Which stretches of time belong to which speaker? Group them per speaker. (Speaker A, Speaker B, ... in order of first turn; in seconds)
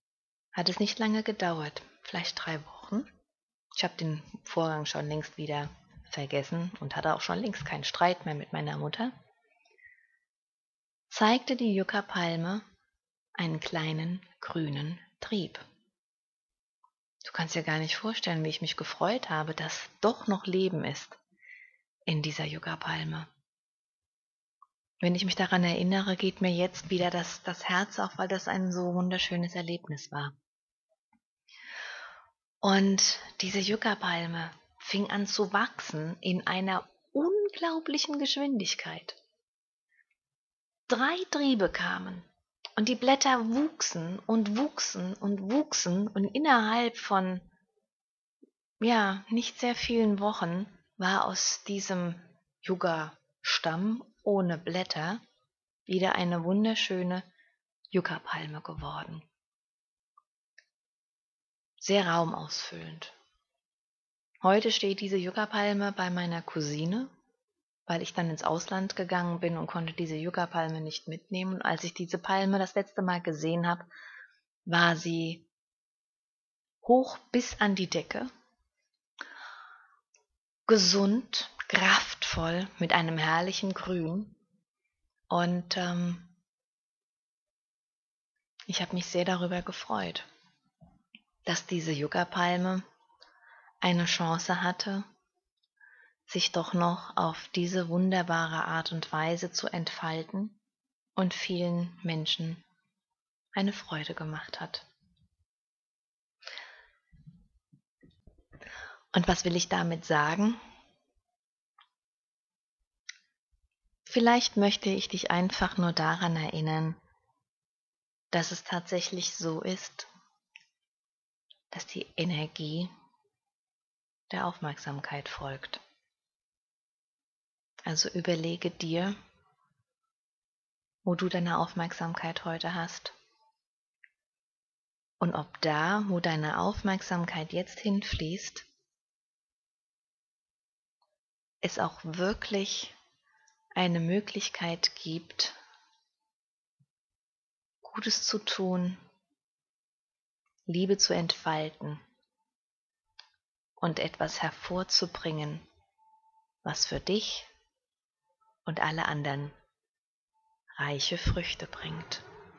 Speaker A: 0.5-3.1, 3.8-9.1, 11.1-12.6, 13.4-15.6, 17.2-21.2, 22.1-23.3, 25.0-30.3, 32.6-39.2, 40.9-47.5, 48.8-55.2, 55.9-57.3, 57.9-59.2, 61.8-63.1, 64.4-67.1, 67.9-73.9, 74.7-75.5, 76.8-78.3, 80.7-84.3, 85.3-86.3, 88.7-90.2, 91.5-92.8, 93.8-95.0, 96.3-100.6, 101.2-102.6, 103.5-104.8, 109.1-110.6, 114.0-117.0, 118.3-120.1, 121.7-122.9, 124.3-125.8, 127.8-129.2, 131.0-133.1, 135.2-138.7, 141.6-142.9, 143.8-145.6, 147.8-149.0, 150.7-152.0, 153.8-155.6, 156.6-157.5, 158.7-159.5, 160.7-162.2